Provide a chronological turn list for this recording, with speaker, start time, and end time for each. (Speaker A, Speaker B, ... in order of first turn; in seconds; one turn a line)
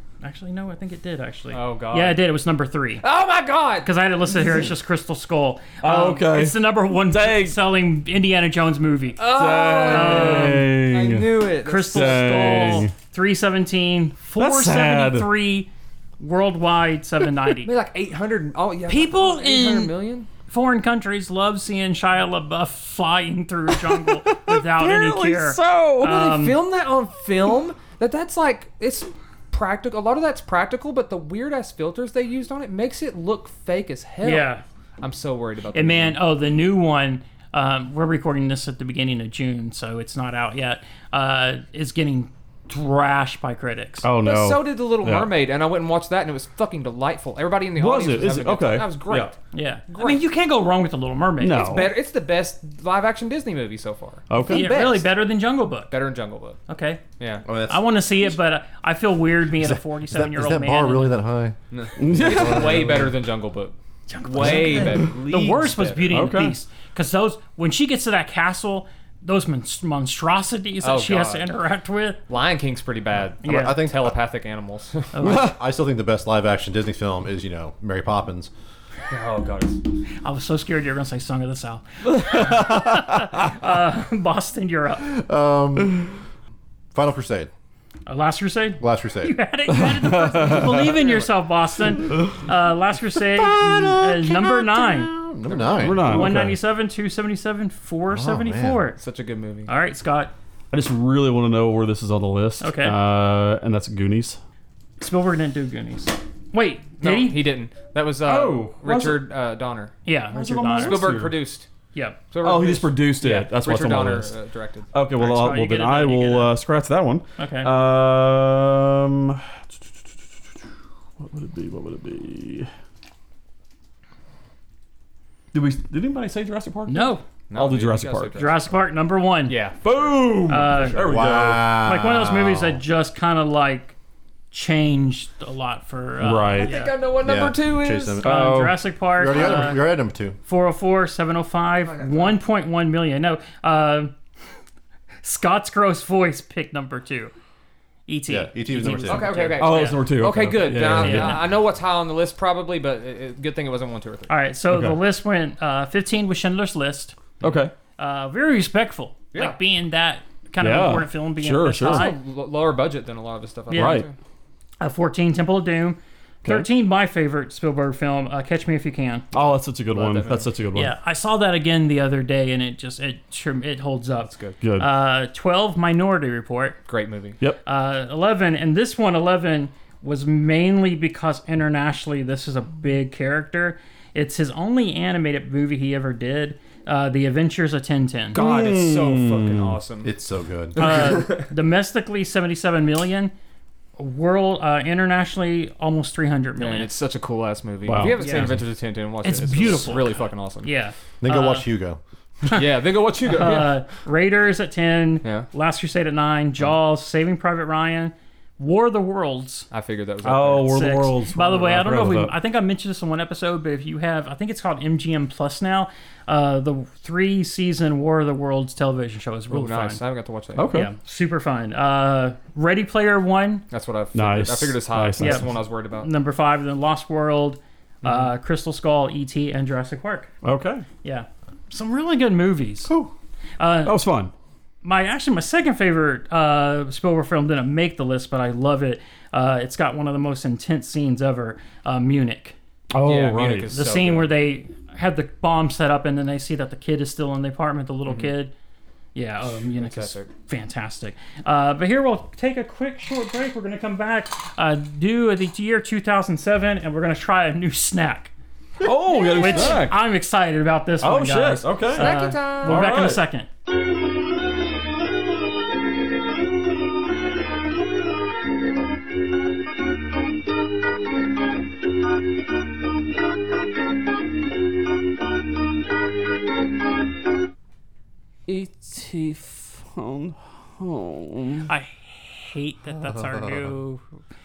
Speaker A: 0.2-3.0
Speaker B: 1.5-2.2
Speaker B: 3.0-3.9
Speaker A: 3.8-9.3
Speaker C: 5.8-7.6
Speaker B: 9.2-12.8
Speaker C: 9.3-11.3
Speaker A: 9.9-10.7
Speaker A: 11.7-17.7
Speaker C: 11.8-12.9
Speaker C: 14.4-15.3
Speaker B: 17.6-20.3
Speaker A: 18.9-19.9
Speaker A: 20.5-26.6
Speaker C: 23.7-26.1
Speaker B: 26.0-36.2
Speaker A: 34.2-34.6
Speaker A: 35.7-44.1
Speaker C: 44.0-45.3
Speaker B: 44.2-49.4
Speaker C: 47.8-49.3
Speaker A: 49.5-51.8
Speaker B: 49.9-50.2
Speaker C: 51.4-51.9
Speaker B: 51.6-55.1
Speaker C: 54.3-54.7
Speaker A: 54.5-55.9
Speaker B: 55.9-56.6
Speaker A: 56.7-57.0
Speaker B: 57.2-57.5
Speaker D: 57.5-58.4
Speaker A: 57.7-61.2
Speaker D: 59.6-61.6
Speaker B: 61.7-66.1
Speaker C: 62.0-63.0
Speaker D: 62.1-63.1
Speaker A: 64.1-72.2
Speaker C: 64.4-65.2
Speaker C: 66.1-66.6
Speaker B: 70.8-71.5
Speaker B: 72.3-75.2
Speaker A: 73.4-73.8
Speaker D: 73.4-74.2
Speaker A: 75.1-75.5
Speaker C: 75.2-75.5
Speaker D: 75.2-78.5
Speaker B: 79.1-79.8
Speaker A: 80.2-85.1
Speaker C: 82.1-83.5
Speaker D: 85.0-86.2
Speaker D: 86.9-87.5
Speaker A: 88.1-95.1
Speaker D: 88.8-89.4
Speaker C: 89.7-91.0
Speaker B: 90.8-91.2
Speaker D: 93.2-96.3
Speaker B: 95.5-96.0
Speaker C: 95.8-96.6
Speaker A: 96.0-99.0
Speaker D: 98.1-98.9
Speaker B: 99.0-99.7
Speaker A: 99.7-100.3
Speaker C: 100.7-104.4
Speaker A: 102.6-103.0
Speaker A: 105.0-107.4
Speaker B: 107.0-110.0
Speaker C: 108.2-109.3
Speaker A: 110.0-111.2
Speaker C: 110.3-111.4
Speaker B: 110.8-111.7
Speaker A: 111.9-112.2
Speaker B: 112.3-114.9
Speaker C: 112.4-114.3
Speaker C: 114.9-119.6
Speaker A: 115.2-116.6
Speaker A: 117.4-117.7
Speaker C: 121.2-122.7
Speaker C: 125.5-128.4
Speaker A: 126.9-127.2
Speaker B: 127.5-128.7
Speaker A: 128.4-129.6
Speaker B: 129.5-131.1
Speaker C: 129.8-131.8
Speaker A: 130.5-131.0
Speaker D: 131.0-132.8
Speaker A: 131.8-133.9
Speaker A: 134.5-136.9
Speaker C: 136.2-136.7
Speaker B: 136.6-138.2
Speaker D: 137.2-138.3
Speaker C: 138.2-138.8
Speaker A: 138.2-139.9
Speaker D: 139.2-140.4
Speaker A: 140.4-144.1
Speaker B: 141.8-142.4
Speaker A: 145.2-147.3
Speaker A: 148.1-150.0
Speaker D: 148.3-149.4
Speaker B: 149.0-154.3
Speaker C: 149.6-151.5
Speaker A: 150.9-151.5
Speaker A: 154.3-157.2
Speaker C: 154.7-155.0
Speaker C: 157.4-157.7
Speaker A: 158.0-162.2
Speaker B: 159.3-159.6
Speaker C: 160.6-162.1
Speaker B: 161.8-164.2
Speaker A: 163.7-164.0
Speaker C: 163.8-164.1
Speaker A: 164.8-169.3
Speaker C: 166.4-166.7
Speaker C: 169.3-170.9
Speaker B: 169.4-170.5
Speaker A: 170.8-176.8
Speaker B: 174.3-174.6
Speaker C: 174.6-174.9
Speaker B: 176.9-177.4
Speaker A: 177.7-188.4
Speaker C: 188.3-189.8
Speaker B: 188.3-190.1
Speaker D: 190.0-191.1
Speaker A: 190.8-193.3
Speaker B: 190.9-191.4
Speaker A: 194.0-196.9
Speaker B: 196.6-200.7
Speaker C: 197.8-198.6
Speaker A: 198.1-198.6
Speaker A: 199.2-200.1
Speaker A: 200.6-201.7
Speaker D: 201.2-202.6
Speaker B: 202.5-203.8
Speaker A: 203.2-209.7
Speaker B: 205.2-205.5
Speaker B: 209.7-210.9
Speaker C: 210.2-212.3
Speaker A: 210.7-220.0
Speaker B: 219.5-220.7
Speaker C: 220.6-220.9
Speaker A: 220.7-223.7
Speaker B: 223.7-226.1
Speaker C: 224.1-225.6
Speaker A: 225.2-230.3
Speaker C: 230.4-230.9
Speaker A: 231.0-232.9
Speaker A: 233.6-234.0
Speaker C: 233.8-234.3
Speaker A: 234.8-242.6
Speaker C: 242.9-243.8
Speaker B: 243.0-244.3
Speaker A: 243.7-248.5
Speaker B: 248.1-248.3
Speaker A: 249.2-258.3
Speaker B: 249.8-250.3
Speaker C: 258.8-260.1
Speaker A: 259.1-263.5
Speaker B: 259.1-259.8
Speaker C: 261.0-263.2
Speaker B: 261.9-263.0
Speaker E: 278.5-281.7
Speaker A: 281.7-284.0
Speaker D: 283.1-283.7